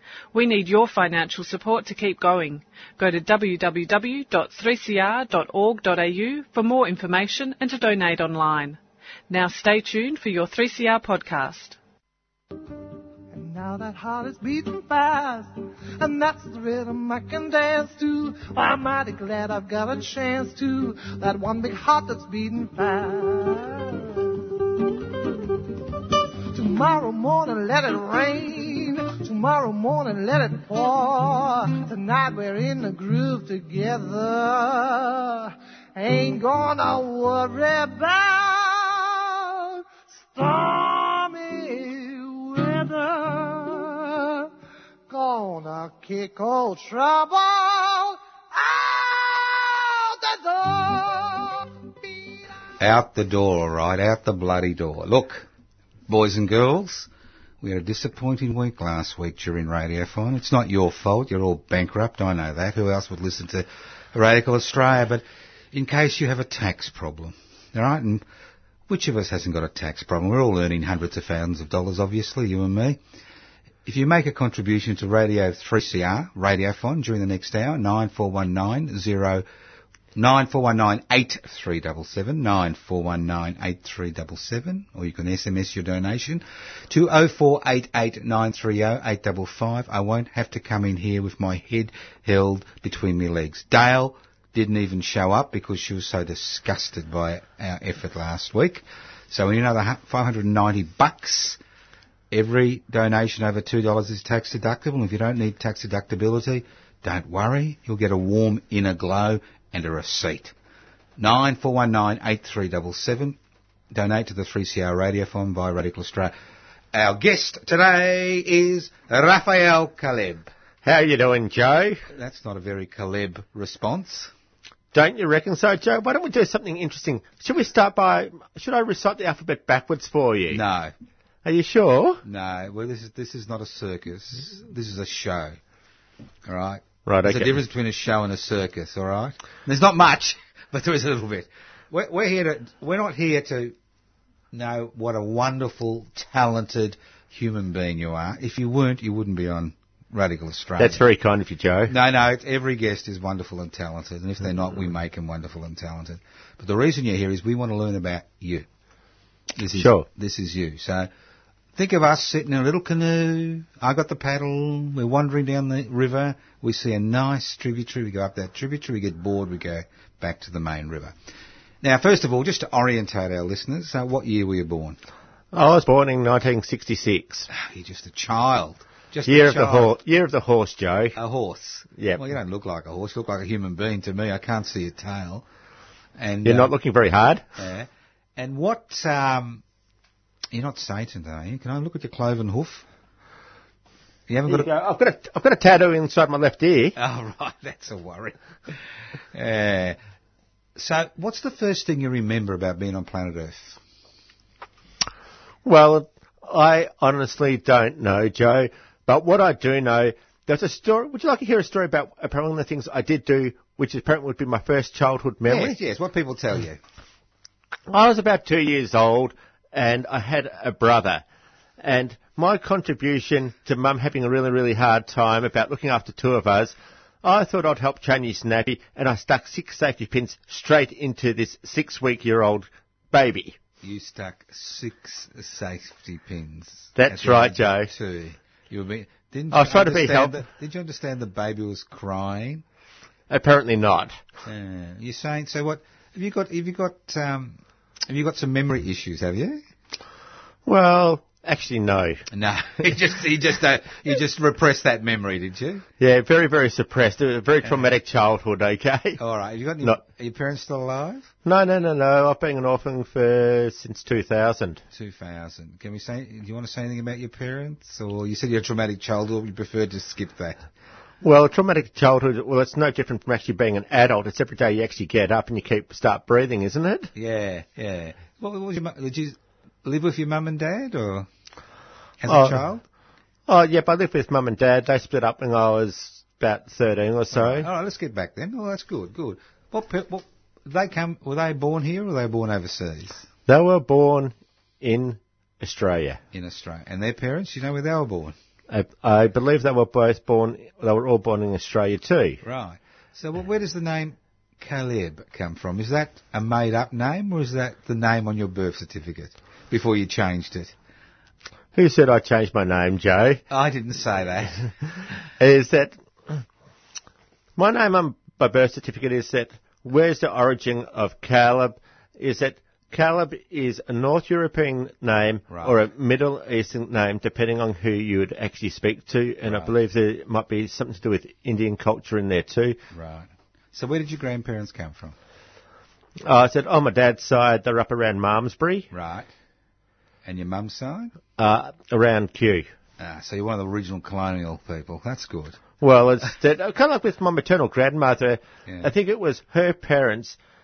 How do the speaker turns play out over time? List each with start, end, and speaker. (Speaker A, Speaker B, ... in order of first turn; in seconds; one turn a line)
Speaker A: 0.3-8.8
Speaker A: 9.3-11.8
Speaker B: 13.3-44.5
Speaker B: 45.1-52.7
Speaker C: 52.8-55.5
Speaker C: 56.1-57.1
Speaker C: 57.6-68.2
Speaker C: 68.9-73.0
Speaker C: 73.8-79.5
Speaker C: 80.2-101.6
Speaker C: 102.3-110.5
Speaker C: 111.2-113.4
Speaker C: 113.9-116.3
Speaker C: 116.9-120.5
Speaker D: 120.8-122.0
Speaker C: 122.1-124.3
Speaker D: 124.9-130.6
Speaker C: 130.5-130.9
Speaker D: 131.4-132.2
Speaker C: 132.2-135.6
Speaker C: 136.5-143.8
Speaker D: 137.1-137.5
Speaker C: 144.5-151.1
Speaker D: 150.8-151.9
Speaker C: 151.9-158.7
Speaker C: 159.6-161.1
Speaker D: 159.7-160.1
Speaker C: 161.8-171.2
Speaker C: 171.8-175.0
Speaker D: 175.5-177.5
Speaker C: 177.5-180.0
Speaker D: 179.3-181.2
Speaker C: 181.2-185.4
Speaker C: 186.2-186.7
Speaker D: 186.4-187.4
Speaker C: 187.6-189.6
Speaker C: 190.5-192.9
Speaker C: 194.3-194.7
Speaker D: 194.5-197.0
Speaker C: 197.0-198.8
Speaker C: 199.3-200.0
Speaker C: 200.8-203.8
Speaker D: 205.7-215.8
Speaker C: 215.4-216.8
Speaker D: 217.9-221.2
Speaker D: 221.8-233.6
Speaker C: 233.8-242.7
Speaker D: 237.0-237.9
Speaker D: 239.5-240.4
Speaker D: 243.3-244.2
Speaker C: 244.4-249.6
Speaker D: 250.7-252.3
Speaker C: 252.3-255.9
Speaker D: 256.0-259.2
Speaker C: 257.6-257.9
Speaker C: 259.2-261.3
Speaker D: 261.4-264.8
Speaker C: 264.9-270.6
Speaker D: 271.2-277.1
Speaker C: 277.1-281.3
Speaker C: 282.2-282.8
Speaker D: 282.3-282.6
Speaker D: 283.5-287.7
Speaker C: 287.3-293.3
Speaker D: 293.5-296.2
Speaker C: 296.3-298.4
Speaker D: 298.7-302.4
Speaker C: 302.4-310.7
Speaker D: 311.8-313.4
Speaker C: 313.5-314.7
Speaker D: 315.4-316.4
Speaker D: 317.6-332.8
Speaker C: 325.5-325.8
Speaker C: 329.4-329.7
Speaker C: 332.9-335.2
Speaker D: 336.2-338.9
Speaker C: 338.9-339.3
Speaker C: 340.2-341.2
Speaker D: 341.4-342.7
Speaker C: 343.0-345.6
Speaker D: 345.8-350.4
Speaker C: 348.6-348.9